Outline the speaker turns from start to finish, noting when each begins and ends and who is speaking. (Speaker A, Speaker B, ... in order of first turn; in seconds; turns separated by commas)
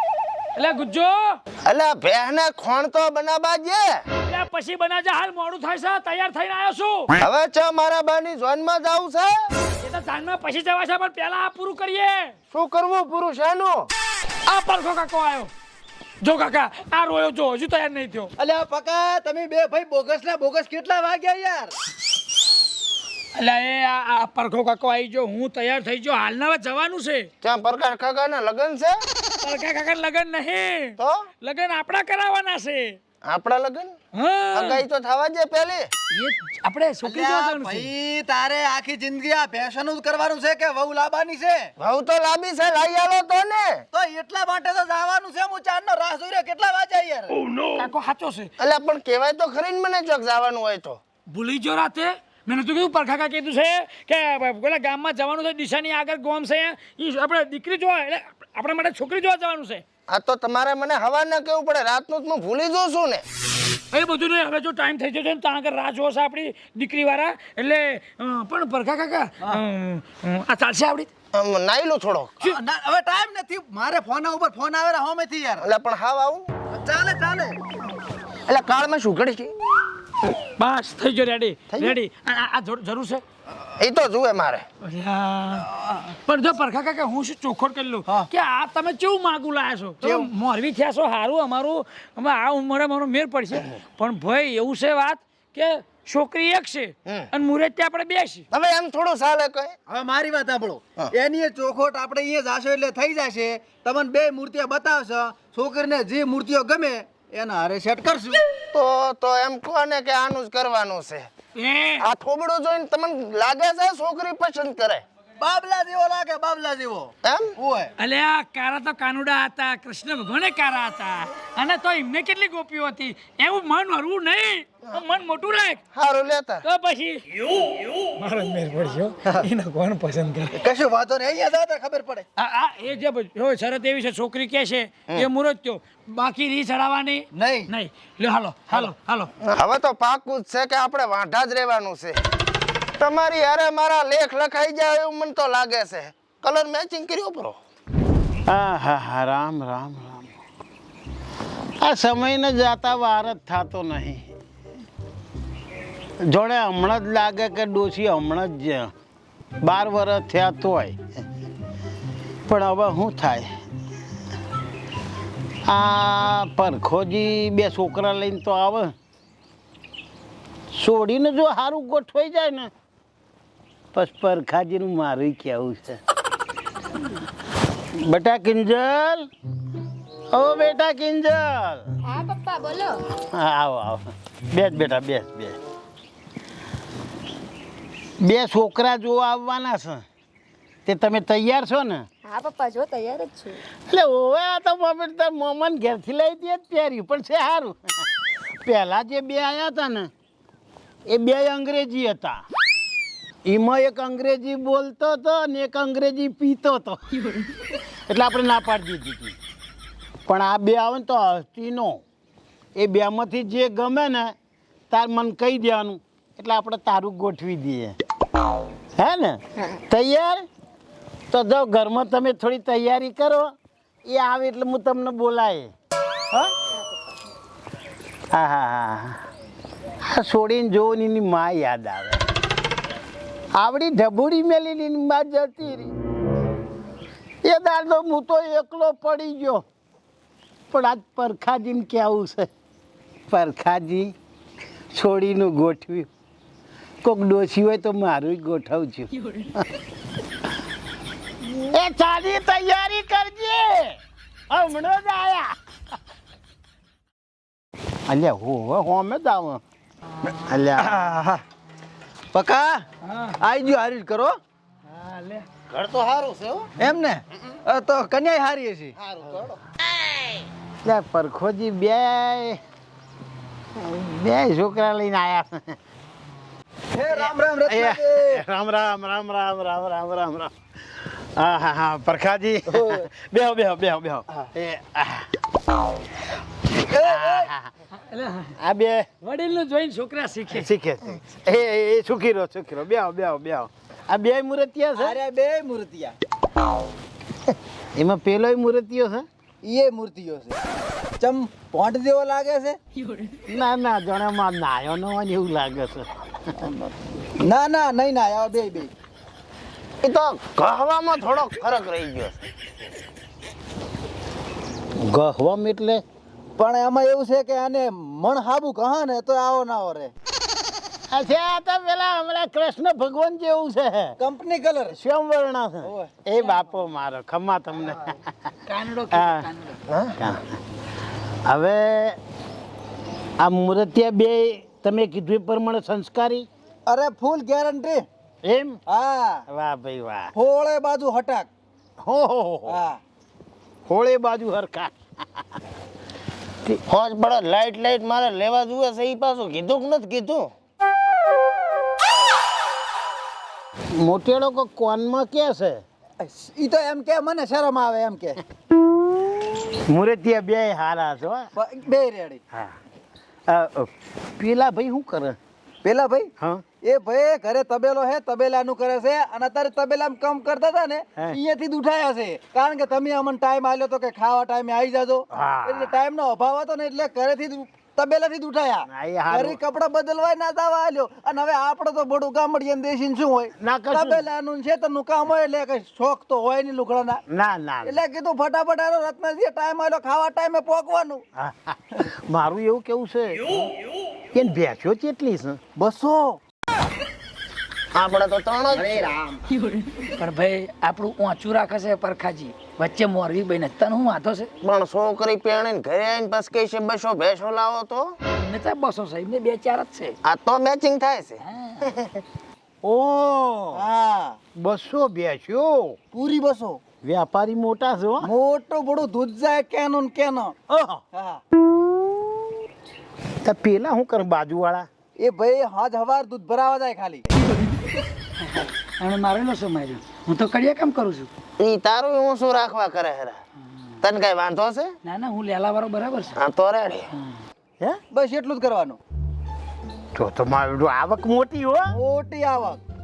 Speaker A: 0.6-1.4, Speaker B: 1.7-4.0, Speaker A: 4.3-7.1, Speaker B: 7.2-9.5, Speaker A: 9.8-12.3, Speaker B: 12.5-13.9, Speaker A: 14.5-15.5, Speaker A: 16.2-18.3, Speaker C: 18.4-21.7, Speaker A: 23.4-27.3, Speaker B: 27.4-29.0, Speaker A: 29.4-33.0, Speaker B: 31.0-31.3, Speaker B: 33.2-33.9, Speaker A: 34.1-34.8, Speaker B: 34.5-35.9, Speaker A: 36.1-37.9, Speaker C: 37.0-41.7, Speaker B: 41.8-43.8, Speaker C: 43.9-47.4, Speaker A: 47.6-48.5, Speaker B: 48.6-51.0, Speaker A: 51.3-59.8, Speaker B: 60.1-63.2, Speaker A: 63.9-71.1, Speaker B: 71.3-72.4, Speaker C: 72.4-75.7, Speaker B: 75.6-76.5, Speaker C: 76.7-77.6, Speaker B: 78.5-79.5, Speaker A: 80.6-83.2, Speaker B: 83.8-84.7, Speaker A: 84.8-98.5, Speaker C: 90.0-90.3, Speaker B: 98.5-99.7, Speaker C: 99.9-108.4, Speaker B: 108.7-111.3, Speaker A: 111.6-112.1, Speaker B: 112.0-115.0, Speaker C: 115.4-117.9, Speaker B: 117.2-117.5, Speaker A: 118.0-125.8, Speaker B: 125.9-126.7, Speaker A: 126.6-127.2, Speaker A: 128.2-130.6, Speaker C: 130.6-132.2, Speaker A: 132.4-139.3, Speaker C: 137.3-137.7, Speaker B: 139.4-142.2, Speaker B: 143.0-147.6, Speaker D: 148.5-150.3, Speaker D: 151.8-154.3, Speaker D: 156.3-158.9, Speaker D: 159.6-161.0, Speaker D: 162.5-163.5, Speaker D: 165.7-168.9, Speaker D: 170.7-172.7, Speaker D: 173.9-176.0, Speaker D: 178.0-179.3, Speaker D: 180.3-181.9, Speaker E: 182.1-183.0, Speaker D: 183.2-185.6, Speaker D: 188.2-190.0, Speaker D: 190.9-192.0, Speaker E: 192.2-193.6, Speaker D: 193.9-198.1, Speaker D: 198.6-200.1, Speaker D: 201.1-202.4, Speaker D: 203.5-207.0, Speaker D: 208.1-209.4, Speaker D: 210.3-212.0, Speaker D: 212.8-214.3, Speaker D: 214.9-217.9, Speaker D: 219.0-220.4, Speaker D: 221.3-223.5, Speaker D: 224.1-225.7, Speaker D: 228.3-229.2, Speaker D: 230.1-232.2, Speaker D: 233.6-235.9, Speaker D: 237.4-239.7, Speaker D: 240.7-242.5, Speaker D: 243.3-244.1, Speaker D: 244.9-246.1, Speaker D: 247.0-249.6, Speaker D: 251.5-254.0, Speaker D: 254.5-255.6, Speaker D: 258.1-259.6, Speaker D: 260.3-261.0, Speaker C: 260.8-261.4, Speaker C: 262.3-262.8, Speaker A: 263.1-263.3, Speaker C: 263.4-264.4, Speaker B: 265.7-266.7, Speaker C: 266.8-268.9, Speaker B: 269.0-269.6, Speaker D: 270.8-272.6, Speaker D: 273.8-275.8, Speaker C: 276.9-278.4, Speaker D: 277.7-285.4, Speaker C: 282.7-283.1, Speaker C: 286.8-287.5, Speaker D: 287.0-287.7, Speaker A: 288.0-288.5, Speaker D: 288.6-289.1, Speaker A: 289.2-290.7, Speaker D: 290.5-295.2, Speaker C: 295.0-296.1, Speaker D: 297.9-299.3, Speaker C: 299.6-300.6, Speaker C: 301.2-302.8, Speaker D: 303.5-306.1, Speaker C: 306.6-308.9, Speaker B: 310.0-312.5, Speaker D: 315.0-316.0, Speaker C: 316.6-320.1, Speaker D: 321.1-324.1, Speaker C: 324.2-325.0, Speaker D: 324.9-328.4, Speaker C: 325.8-326.1, Speaker A: 328.7-329.8, Speaker D: 329.1-329.5, Speaker B: 329.9-330.2, Speaker D: 330.2-330.5, Speaker D: 331.5-332.2, Speaker D: 333.4-336.5, Speaker C: 336.9-338.1, Speaker D: 338.4-338.8, Speaker C: 338.9-339.4, Speaker D: 339.5-340.3, Speaker C: 340.3-341.5, Speaker D: 342.0-342.8, Speaker C: 342.7-343.0, Speaker D: 343.9-344.9, Speaker B: 346.9-350.5, Speaker D: 354.0-355.8, Speaker C: 356.2-358.4, Speaker D: 359.6-361.5, Speaker C: 361.6-362.4, Speaker D: 363.5-365.4, Speaker C: 365.8-366.3, Speaker C: 366.8-387.2, Speaker D: 375.3-375.9, Speaker D: 378.9-379.6, Speaker D: 383.6-384.3, Speaker D: 387.3-388.0, Speaker C: 387.8-391.2, Speaker D: 391.4-393.5, Speaker D: 394.3-395.6, Speaker C: 395.8-396.4, Speaker B: 397.9-399.1, Speaker C: 398.7-399.4, Speaker A: 399.5-404.5, Speaker B: 404.6-408.2, Speaker A: 408.3-410.1, Speaker B: 410.2-412.2, Speaker A: 411.5-412.0, Speaker D: 412.8-413.9, Speaker C: 413.7-414.4, Speaker D: 414.6-416.0, Speaker C: 416.1-416.8, Speaker D: 417.0-418.3, Speaker C: 418.2-420.6, Speaker D: 420.7-421.0, Speaker C: 421.1-421.4, Speaker D: 423.4-424.9, Speaker C: 425.2-427.2, Speaker A: 428.5-431.3, Speaker B: 431.6-433.4, Speaker B: 434.0-434.9, Speaker A: 435.1-436.4, Speaker B: 436.4-437.1, Speaker C: 438.1-439.0, Speaker D: 440.1-441.9, Speaker C: 441.9-442.8